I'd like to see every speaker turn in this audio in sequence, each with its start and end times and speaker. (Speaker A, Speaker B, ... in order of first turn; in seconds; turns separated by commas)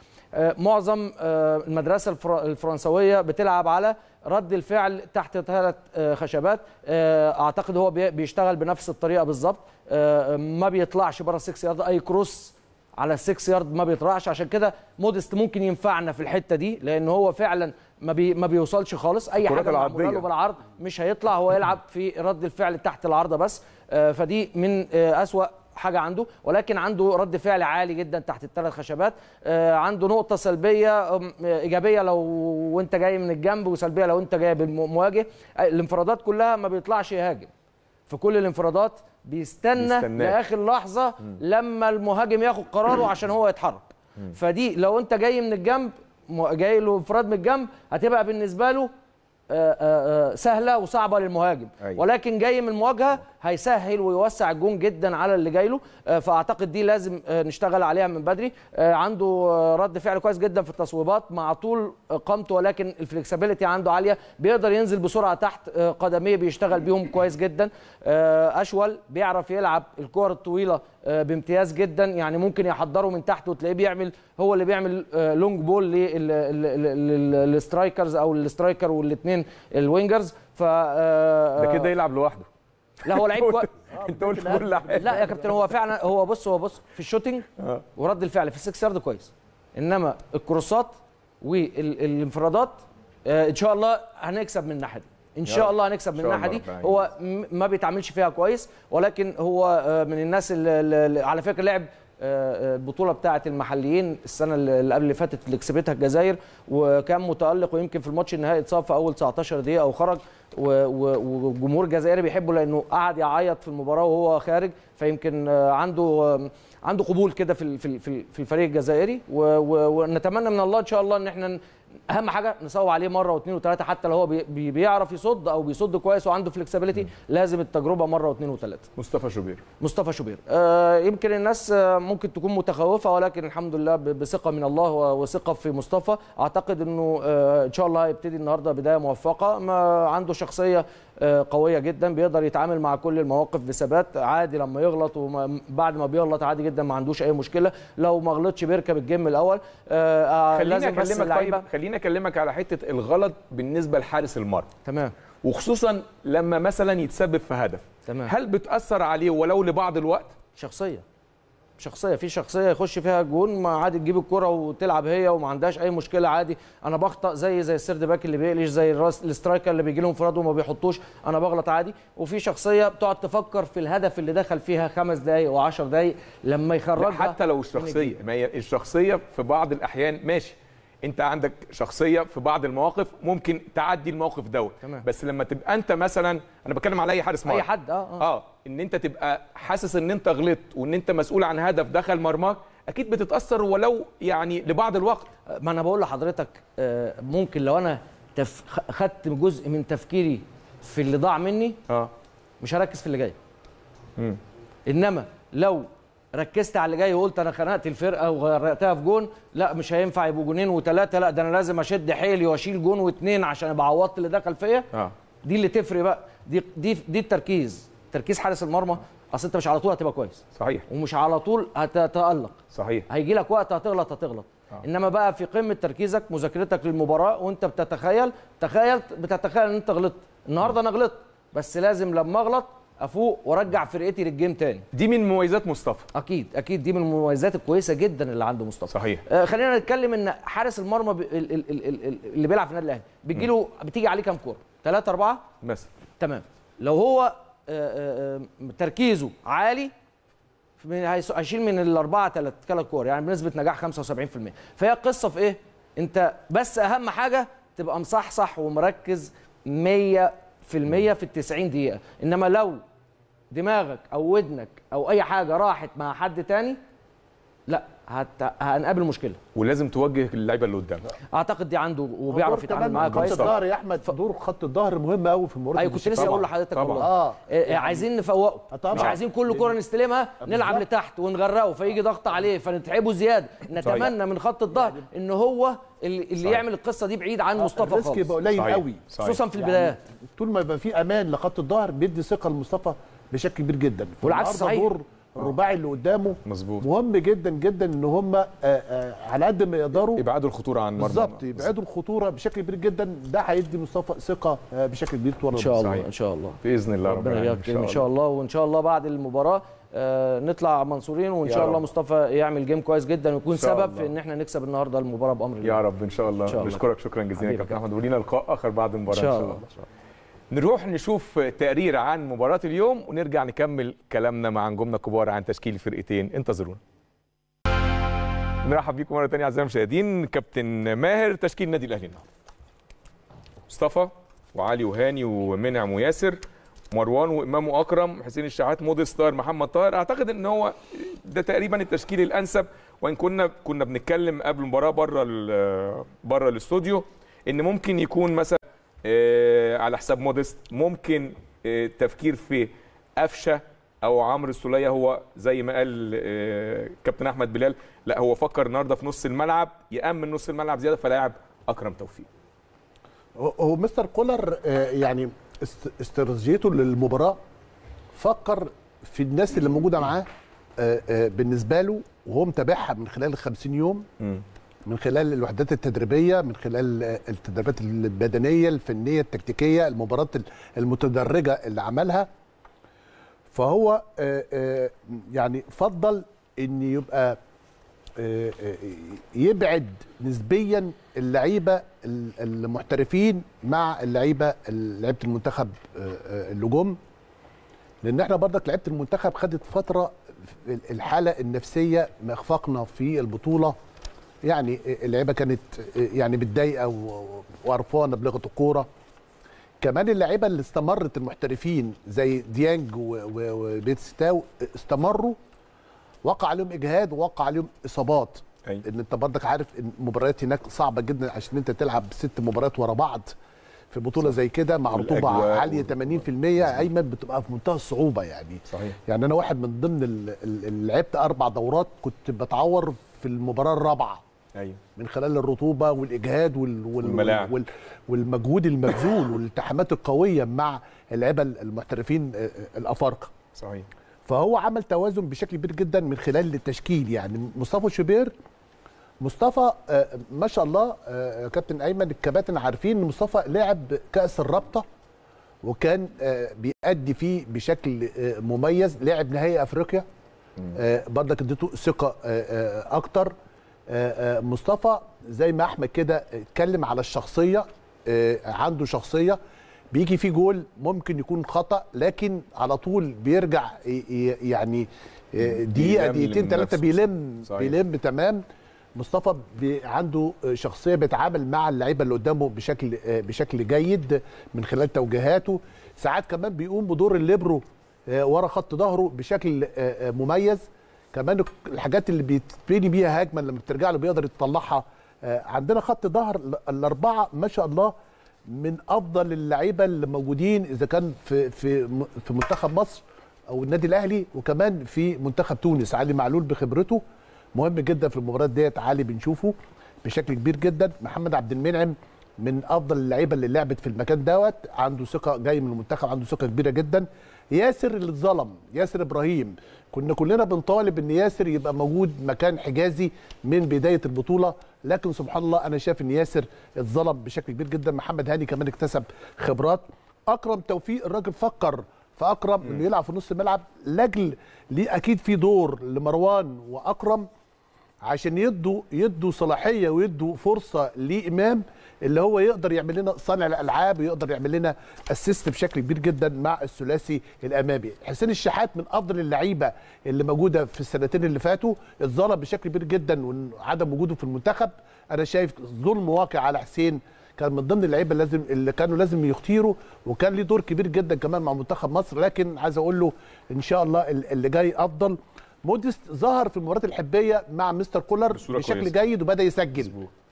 Speaker A: 0.3-37.5, Speaker B: 19.4-20.2, Speaker A: 38.1-48.9, Speaker B: 39.8-40.4, Speaker A: 49.5-81.9, Speaker B: 81.6-82.5, Speaker B: 83.0-85.7, Speaker A: 83.0-83.7, Speaker C: 84.1-84.6, Speaker A: 84.4-128.9, Speaker B: 87.6-87.8, Speaker B: 95.5-97.1, Speaker B: 129.0-129.6, Speaker A: 129.8-151.7, Speaker B: 150.5-154.7, Speaker A: 154.8-155.1, Speaker B: 155.4-160.4, Speaker A: 158.1-158.3, Speaker A: 160.6-161.0, Speaker A: 161.8-178.1, Speaker B: 177.0-195.3, Speaker A: 187.4-188.3, Speaker A: 195.5-201.8, Speaker A: 202.6-203.4, Speaker A: 204.9-214.9, Speaker A: 215.4-234.9, Speaker B: 220.6-220.8, Speaker B: 222.7-223.1, Speaker B: 234.9-236.1, Speaker A: 236.1-245.5, Speaker B: 238.9-239.2, Speaker B: 245.6-245.9, Speaker A: 246.2-249.9, Speaker A: 250.8-262.8, Speaker A: 263.5-266.8, Speaker A: 267.7-269.4, Speaker B: 269.6-271.1, Speaker A: 271.3-274.1, Speaker C: 272.3-278.1, Speaker B: 272.9-273.6, Speaker A: 275.8-288.4, Speaker B: 276.1-277.1, Speaker C: 278.7-279.7, Speaker C: 280.4-280.9, Speaker B: 283.8-284.1, Speaker C: 287.6-300.2, Speaker B: 288.6-289.4, Speaker A: 289.2-290.0, Speaker A: 294.2-294.9, Speaker B: 296.4-296.9, Speaker B: 300.0-301.7, Speaker C: 301.0-306.0, Speaker A: 305.6-315.8, Speaker B: 305.8-306.1, Speaker B: 306.6-308.0, Speaker B: 311.5-311.8, Speaker B: 313.5-314.1, Speaker B: 315.6-319.6, Speaker A: 316.5-316.8, Speaker A: 317.4-317.7, Speaker A: 319.1-319.9, Speaker B: 320.5-326.8, Speaker B: 328.6-332.3, Speaker B: 333.7-336.4, Speaker B: 336.9-362.3, Speaker C: 363.4-367.4, Speaker C: 368.1-374.1, Speaker C: 374.9-382.3, Speaker C: 383.5-387.4, Speaker C: 388.2-397.0, Speaker C: 398.0-403.8, Speaker C: 404.4-408.9, Speaker C: 409.8-415.4, Speaker C: 416.2-423.4, Speaker C: 423.9-434.2, Speaker B: 424.9-426.9, Speaker B: 428.7-429.0, Speaker B: 434.5-434.8, Speaker C: 435.0-443.3, Speaker B: 437.0-437.5, Speaker B: 443.6-443.9, Speaker C: 444.3-448.3, Speaker C: 449.2-454.9, Speaker C: 455.6-460.1, Speaker C: 460.7-463.3, Speaker C: 463.9-469.4, Speaker C: 469.9-478.4, Speaker B: 475.4-477.8, Speaker C: 479.0-497.9, Speaker C: 498.5-507.0, Speaker C: 507.5-537.3, Speaker C: 538.0-570.0, Speaker B: 568.3-569.0